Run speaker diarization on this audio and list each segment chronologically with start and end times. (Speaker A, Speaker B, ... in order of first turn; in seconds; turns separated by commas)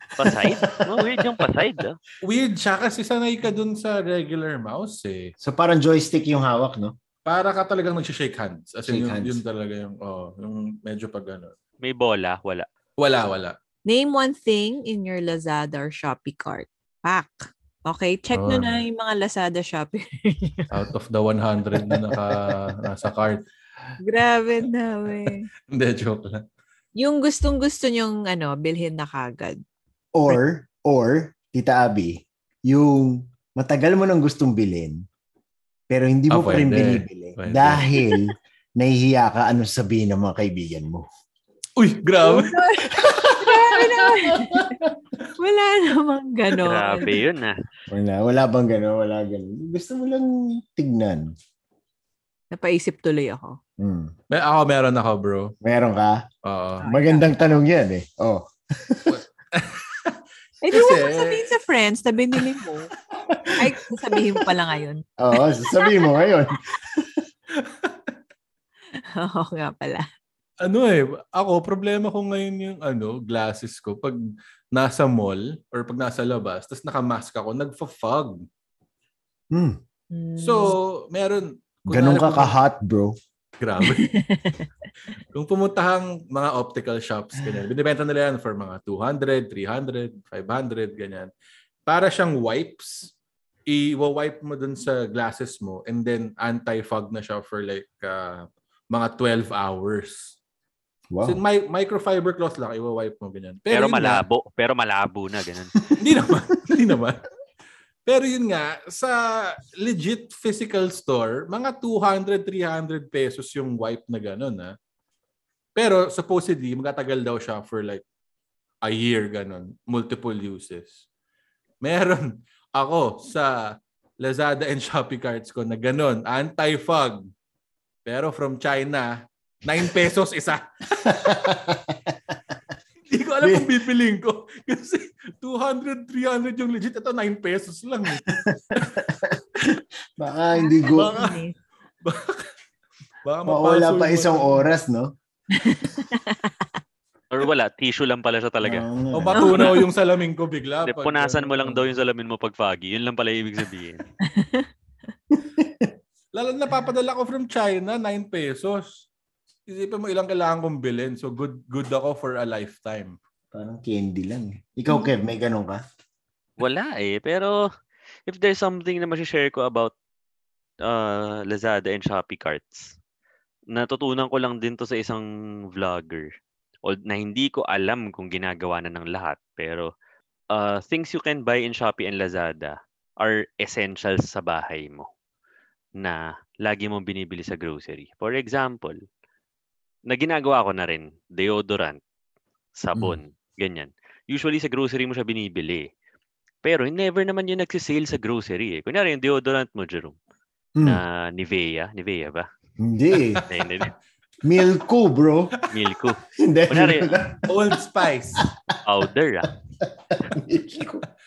Speaker A: 0.2-1.5, Speaker B: 0.2-2.0, Speaker C: 2.2-5.3, Speaker A: 5.4-6.9, Speaker C: 7.2-11.6, Speaker A: 8.9-9.4, Speaker B: 11.8-12.7, Speaker C: 13.0-13.6, Speaker D: 13.9-20.8, Speaker C: 18.3-18.8, Speaker C: 20.7-23.4, Speaker A: 21.8-22.8, Speaker D: 24.0-25.5, Speaker C: 25.2-26.4, Speaker D: 27.0-29.6, Speaker A: 30.1-35.0, Speaker A: 35.9-41.1, Speaker C: 36.3-37.9, Speaker C: 41.8-42.6, Speaker D: 42.2-44.8, Speaker A: 43.0-43.3, Speaker C: 43.5-43.9, Speaker D: 45.4-47.2, Speaker B: 46.6-47.6, Speaker A: 47.9-51.3, Speaker D: 52.5-53.6, Speaker A: 53.8-54.1, Speaker C: 54.3-55.5, Speaker A: 55.6-56.2, Speaker C: 56.4-56.9, Speaker D: 56.8-57.3, Speaker A: 56.8-59.2, Speaker C: 59.1-60.2, Speaker D: 60.6-62.9, Speaker C: 60.7-61.5, Speaker A: 63.3-64.4, Speaker D: 63.6-66.3, Speaker A: 65.2-67.2, Speaker C: 67.6-68.1, Speaker D: 69.2-70.1, Speaker C: 70.6-74.2, Speaker C: 74.7-78.4, Speaker A: 79.5-79.8, Speaker D: 80.1-80.8, Speaker C: 80.4-82.6, Speaker A: 81.9-83.1, Speaker C: 83.6-84.1, Speaker D: 83.8-84.7, Speaker C: 85.3-91.3, Speaker C: 91.9-93.1, Speaker C: 93.7-100.4, Speaker A: 101.1-101.4, Speaker C: 101.2-104.2, Speaker B: 103.7-105.7, Speaker C: 106.0-107.2, Speaker C: 108.0-114.7, Speaker C: 115.8-118.0, Speaker C: 118.8-121.0, Speaker C: 121.8-123.5, Speaker C: 124.2-127.3, Speaker C: 128.1-129.1, Speaker C: 129.6-131.4, Speaker A: 131.0-132.3, Speaker C: 133.1-138.2, Speaker A: 133.4-133.7, Speaker A: 138.2-141.2, Speaker D: 140.5-141.5, Speaker C: 140.9-141.4, Speaker C: 142.0-142.5, Speaker C: 143.2-144.6, Speaker A: 143.5-145.1, Speaker D: 145.5-146.7, Speaker B: 147.3-148.8, Speaker A: 148.6-149.7, Speaker C: 149.1-151.9, Speaker D: 149.4-149.8, Speaker B: 150.8-154.0, Speaker D: 154.2-154.7, Speaker A: 155.3-155.9, Speaker C: 156.3-159.0, Speaker C: 159.7-163.2, Speaker A: 163.5-165.8, Speaker B: 166.6-167.5, Speaker B: 168.3-169.9, Speaker B: 170.8-172.9, Speaker B: 173.7-176.3, Speaker B: 176.8-179.9, Speaker B: 180.5-185.1, Speaker B: 186.0-189.0, Speaker B: 190.1-192.0, Speaker B: 192.8-195.9, Speaker B: 196.6-200.2, Speaker B: 200.8-202.5, Speaker A: 202.8-203.4, Speaker C: 203.1-203.6, Speaker B: 203.5-203.9, Speaker A: 204.4-205.5, Speaker B: 205.7-206.2, Speaker A: 206.4-207.5, Speaker B: 206.7-207.1, Speaker C: 207.5-208.4, Speaker B: 208.9-209.5, Speaker A: 209.8-211.0